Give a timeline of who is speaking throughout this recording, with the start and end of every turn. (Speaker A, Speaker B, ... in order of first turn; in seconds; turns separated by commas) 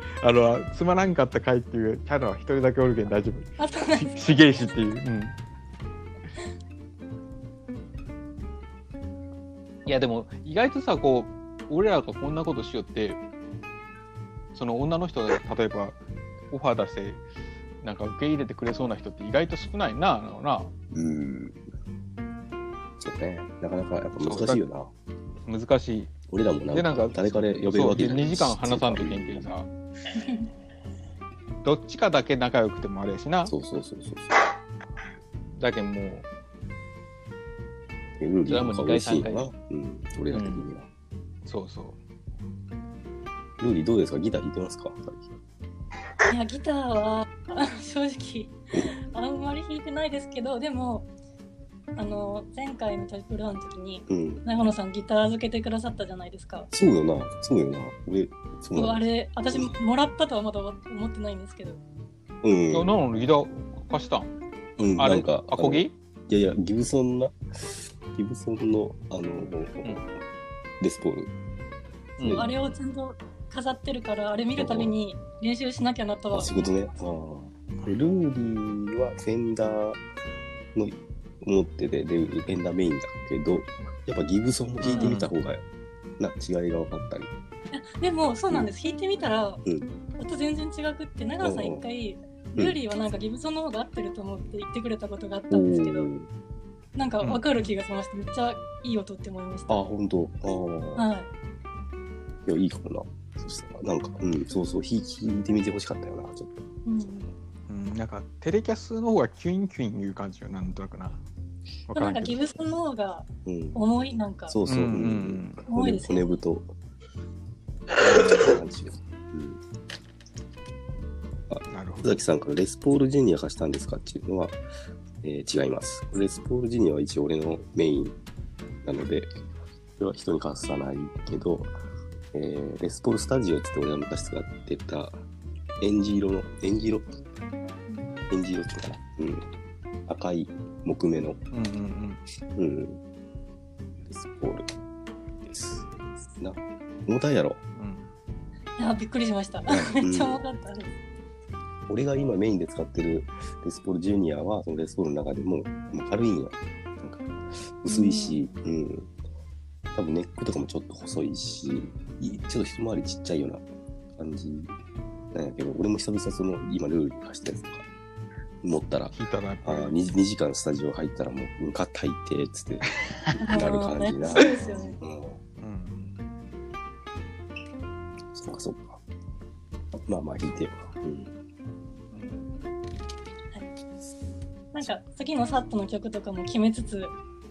Speaker A: 0.2-5.4, Speaker B: 3.6-4.4, Speaker A: 9.9-13.2, Speaker A: 14.5-16.0, Speaker A: 16.5-17.2, Speaker A: 17.8-20.7, Speaker C: 20.9-21.6, Speaker C: 23.0-24.9, Speaker A: 24.2-24.6, Speaker A: 25.5-26.1, Speaker C: 26.3-29.5, Speaker A: 26.7-29.7, Speaker B: 30.2-30.5, Speaker A: 31.6-33.5, Speaker C: 33.5-34.4, Speaker A: 35.6-36.3, Speaker C: 38.2-40.9, Speaker A: 38.5-39.5, Speaker A: 40.3-40.7, Speaker A: 41.5-42.0, Speaker C: 43.6-45.4, Speaker B: 46.3-51.1, Speaker B: 52.0-56.7, Speaker C: 54.1-54.4, Speaker C: 56.7-59.7, Speaker B: 58.8-61.8, Speaker C: 62.4-63.0, Speaker A: 62.7-64.3, Speaker C: 64.8-70.1, Speaker A: 65.0-65.9, Speaker C: 70.8-71.3, Speaker A: 72.2-72.5, Speaker C: 72.2-72.5, Speaker B: 72.3-76.8, Speaker C: 74.6-74.9, Speaker C: 76.3-80.0, Speaker C: 80.8-85.6, Speaker A: 84.8-85.3, Speaker C: 86.2-87.3, Speaker B: 87.7-89.6, Speaker C: 89.7-89.9, Speaker B: 90.2-96.1, Speaker C: 91.4-91.8, Speaker C: 95.5-96.3, Speaker B: 97.0-99.9, Speaker C: 99.7-101.1, Speaker B: 101.0-101.3, Speaker C: 102.5-106.7, Speaker B: 106.8-107.3, Speaker A: 107.7-111.2, Speaker A: 111.9-112.4, Speaker B: 111.9-114.6, Speaker C: 113.5-113.8, Speaker C: 114.5-116.7, Speaker A: 114.7-115.6, Speaker B: 115.7-116.4, Speaker A: 118.0-118.5, Speaker C: 118.1-119.6, Speaker C: 121.5-124.6, Speaker A: 121.7-122.2, Speaker C: 125.2-128.2, Speaker C: 128.8-129.3, Speaker C: 130.0-131.7, Speaker C: 132.3-135.2, Speaker C: 135.8-137.1, Speaker B: 137.9-138.2, Speaker C: 138.3-139.5, Speaker C: 140.1-141.4, Speaker A: 141.5-142.2, Speaker C: 142.6-143.0, Speaker C: 144.0-144.7, Speaker C: 145.4-147.6, Speaker A: 147.8-148.1, Speaker B: 148.8-150.9, Speaker C: 149.7-150.4, Speaker C: 151.9-159.1, Speaker B: 157.9-158.5, Speaker C: 159.9-163.7, Speaker C: 164.2-164.7, Speaker C: 165.3-167.9, Speaker C: 168.6-175.4, Speaker A: 169.1-170.0, Speaker B: 173.4-175.0, Speaker A: 175.6-176.2, Speaker C: 178.3-179.0, Speaker C: 180.1-181.4, Speaker A: 182.1-182.5, Speaker B: 184.7-187.2